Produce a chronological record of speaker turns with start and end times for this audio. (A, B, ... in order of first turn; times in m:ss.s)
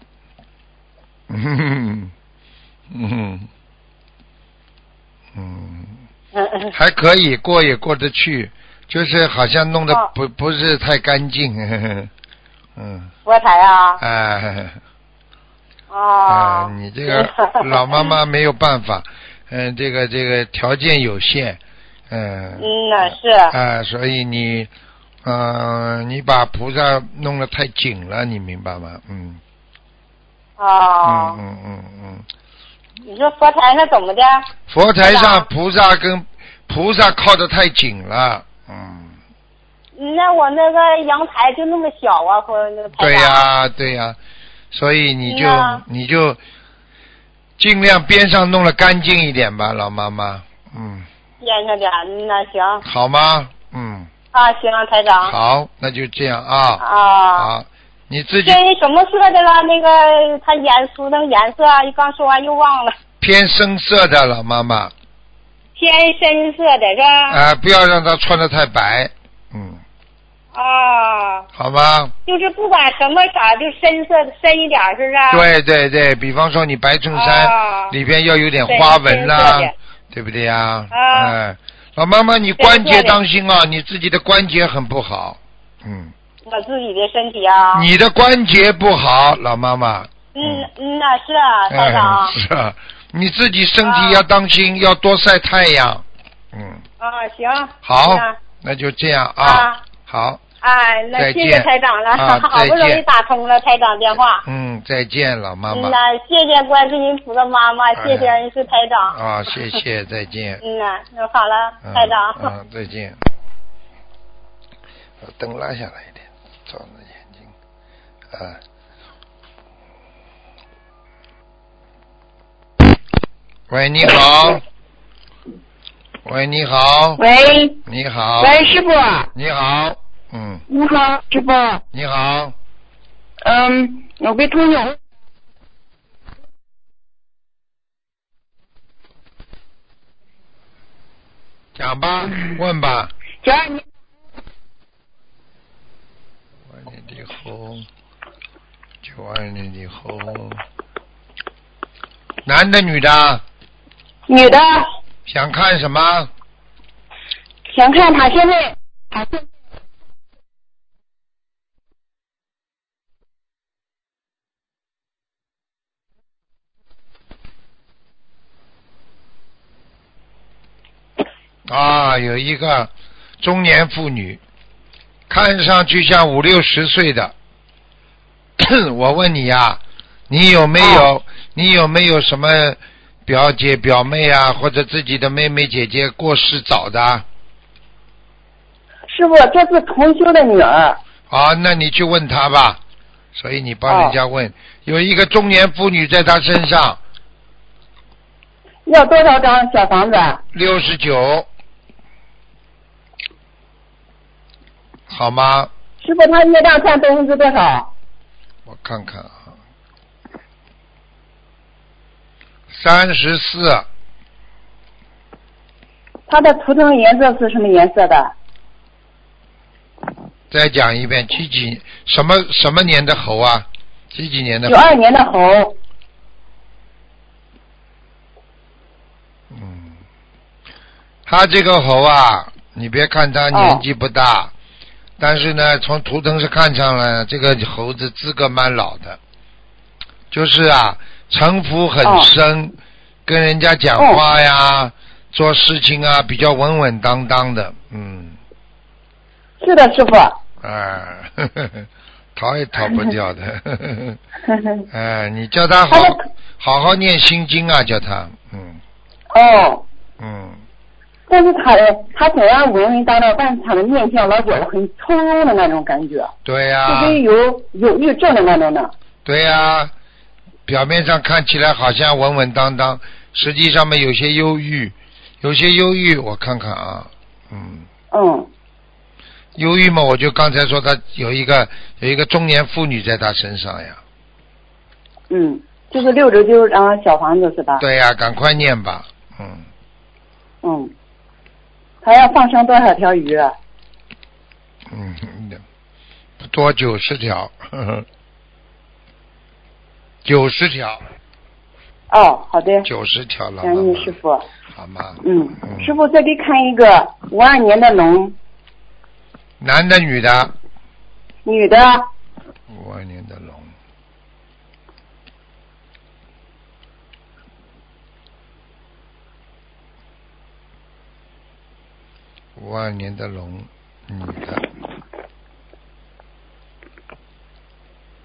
0:01.3-0:02.1 A
0:02.9-0:03.5 A
0:05.3-0:06.0 A
0:06.4-0:06.8 B
0:06.7-0:12.1 A
0:12.8-0:13.1 A
0:13.3-0:14.0 B
0:14.0-0:14.8 A
0:15.9-0:18.1 B
0:16.3-0:24.7 A
0:22.6-0:23.6 B
0:25.2-0:29.4 A
0:30.6-0:31.4 B
0:31.0-0:32.3 A
0:33.0-0:34.5 B
0:34.7-0:39.2 A
0:35.0-0:35.5 B
0:40.0-0:43.4 B
0:43.0-0:44.2 A
0:44.7-0:46.4 A
0:45.3-0:45.8 B
0:47.6-0:51.1 A
0:51.4-0:52.8 B
0:52.8-0:54.1 A
0:54.3-0:55.3 B
0:55.2-0:56.8 A
0:56.8-0:57.5 B
0:57.4-0:58.6 A
0:58.4-1:03.0 B
1:03.2-1:04.9 A
1:05.8-1:07.4 B
1:07.3-1:09.8 A
1:10.5-1:11.4 B
1:11.6-1:12.2 A
1:12.3-1:15.4 B
1:15.3-1:26.1 A
1:17.1-1:18.0 B
1:18.7-1:19.7 B
1:20.9-1:21.4 B
1:22.6-1:23.2 B
1:26.4-1:27.9 B
1:27.7-1:30.7 A
1:30.4-1:32.4 B
1:31.7-1:36.8 A
1:33.8-1:34.2 B
1:37.0-1:38.4 B
1:37.8-1:40.4 A
1:39.4-1:39.8 B
1:40.6-1:44.4 B
1:41.2-1:43.0 A
1:44.4-1:46.0 A
1:45.7-1:49.2 B
1:48.0-1:48.4 A
1:49.1-1:50.6 A
1:50.6-1:52.5 B
1:51.8-1:53.2 A
1:55.2-1:57.5 A
1:58.3-1:58.6 A
2:03.7-2:04.6 A
2:06.2-2:07.2 A
2:07.2-2:07.8 C
2:07.9-2:08.6 A
2:08.4-2:09.3 C
2:09.4-2:10.6 A
2:10.7-2:11.8 C
2:11.9-2:12.6 A
2:13.4-2:15.0 C
2:21.8-2:23.1 A
2:23.4-2:23.8 C
2:26.7-2:27.9 A
2:29.0-2:30.6 A
2:32.4-2:33.4 A
2:34.3-2:34.9 C
2:35.3-2:36.3 A
2:37.7-2:39.4 C
2:51.7-2:54.4 A
2:55.3-2:57.3 A
2:58.6-3:07.2 A
3:00.8-3:01.1 C
3:09.1-3:11.0 C
3:11.3-3:12.8 A
3:13.4-3:17.0 A
3:13.9-3:14.2 C
3:18.9-3:20.4 C
3:20.5-3:21.5 A
3:25.1-3:25.7 A
3:26.0-3:27.9 C
3:28.7-3:29.5 A
3:32.7-3:33.9 A
3:36.3-3:38.3 C
3:40.5-3:44.8 A
3:44.7-3:45.8 C
3:49.5-3:50.0 A
3:51.3-3:54.5 A
3:53.5-3:53.8 C
3:55.2-3:59.2 A
4:00.3-4:08.4 A
4:02.0-4:02.3 C
4:09.6-4:10.4 C
4:10.6-4:14.2 A
4:14.5-4:14.8 C
4:14.9-4:18.8 A
4:15.9-4:16.2 C
4:19.3-4:19.9 C
4:20.2-4:20.6 A
4:21.3-4:26.3 C
4:26.4-4:27.2 A
4:26.9-4:28.9 C
4:29.2-4:29.9 A
4:30.7-4:37.9 A
4:38.1-4:38.5 C
4:39.6-4:44.0 A
4:45.3-4:47.8 C
4:47.8-4:49.7 A
4:50.6-4:50.9 C
4:52.0-4:53.6 C
4:54.9-4:55.6 A
4:56.4-4:58.1 A
5:00.2-5:01.0 A
5:02.1-5:02.9 C
5:02.8-5:04.2 A
5:03.6-5:04.5 C
5:04.7-5:06.0 A
5:05.2-5:08.4 C
5:09.6-5:10.5 A
5:11.4-5:12.1 C
5:12.7-5:13.7 A
5:22.6-5:24.6 A